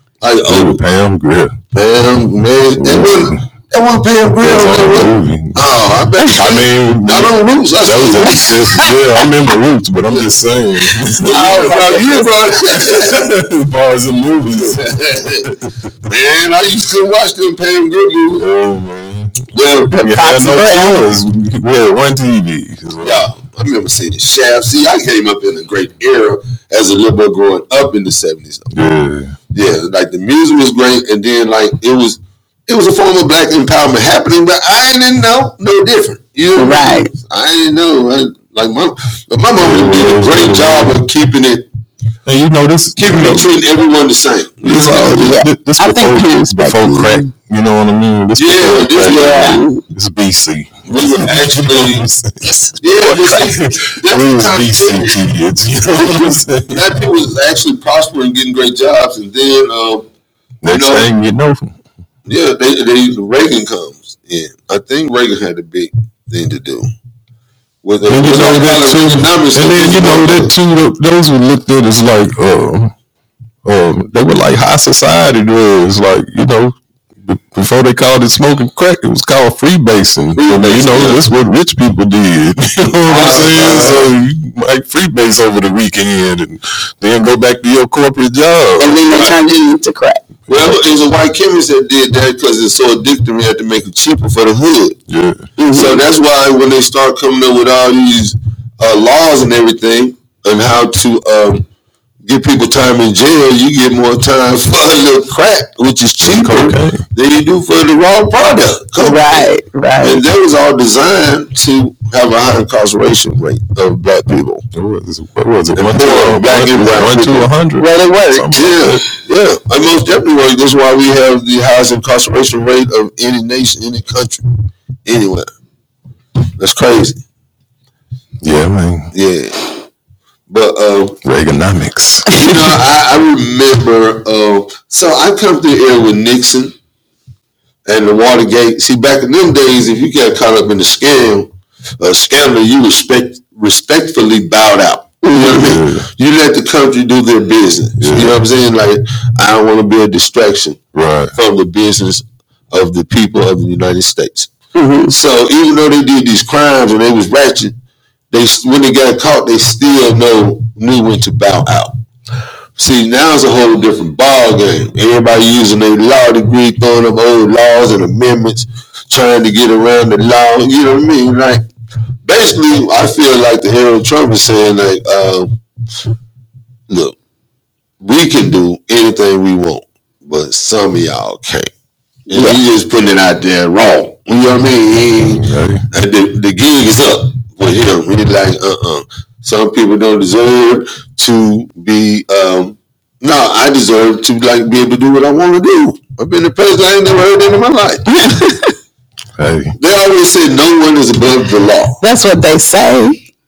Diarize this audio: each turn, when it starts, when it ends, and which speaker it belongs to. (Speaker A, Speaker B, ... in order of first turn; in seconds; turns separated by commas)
Speaker A: 0.2-0.8, Speaker B: 0.5-1.6, Speaker A: 1.7-8.9, Speaker B: 2.8-3.4, Speaker B: 4.4-5.6, Speaker B: 6.3-11.8, Speaker A: 11.2-13.3, Speaker C: 11.2-12.3, Speaker B: 12.8-14.8, Speaker A: 14.7-15.5, Speaker B: 15.4-15.7, Speaker A: 16.1-18.4, Speaker B: 18.4-19.4, Speaker A: 19.5-20.0, Speaker C: 19.9-21.0, Speaker B: 19.9-23.2, Speaker A: 23.0-28.7, Speaker B: 28.7-29.3, Speaker A: 29.5-41.7, Speaker C: 36.6-37.1, Speaker B: 39.6-41.0, Speaker B: 42.2-43.5, Speaker A: 43.0-45.2, Speaker B: 44.6-56.9, Speaker C: 45.0-47.3, Speaker A: 48.4-49.6, Speaker C: 49.0-49.8, Speaker A: 50.9-52.1, Speaker A: 52.8-55.2, Speaker A: 56.7-60.0, Speaker B: 60.6-61.8, Speaker A: 60.6-61.1, Speaker A: 62.3-66.9, Speaker A: 67.8-70.5, Speaker B: 68.1-72.9, Speaker B: 73.6-89.0, Speaker A: 80.3-81.2, Speaker A: 83.1-84.1, Speaker C: 88.8-90.2, Speaker A: 90.5-95.0, Speaker B: 95.1-95.4, Speaker C: 95.6-96.0, Speaker A: 95.7-101.6, Speaker A: 102.2-114.6, Speaker B: 106.2-107.0, Speaker C: 109.0-110.2, Speaker B: 114.7-119.0, Speaker A: 115.7-117.5, Speaker C: 117.8-118.5, Speaker A: 118.5-124.5, Speaker A: 125.0-125.5, Speaker A: 126.6-127.2, Speaker B: 128.4-129.1, Speaker A: 129.1-129.7, Speaker A: 130.5-131.2, Speaker B: 131.2-132.3, Speaker A: 132.3-136.7, Speaker A: 137.8-150.8, Speaker B: 145.4-146.1, Speaker B: 148.0-148.3, Speaker B: 150.9-151.3, Speaker A: 151.3-154.5, Speaker C: 154.7-155.1, Speaker A: 155.1-157.7, Speaker A: 158.3-161.9, Speaker A: 162.8-171.6, Speaker A: 172.2-175.5, Speaker A: 176.9-177.1, Speaker A: 178.0-181.7, Speaker A: 182.3-198.0, Speaker C: 182.3-182.6, Speaker B: 185.3-185.8, Speaker C: 198.1-198.7, Speaker B: 199.4-199.7, Speaker A: 199.8-202.0, Speaker C: 202.0-203.2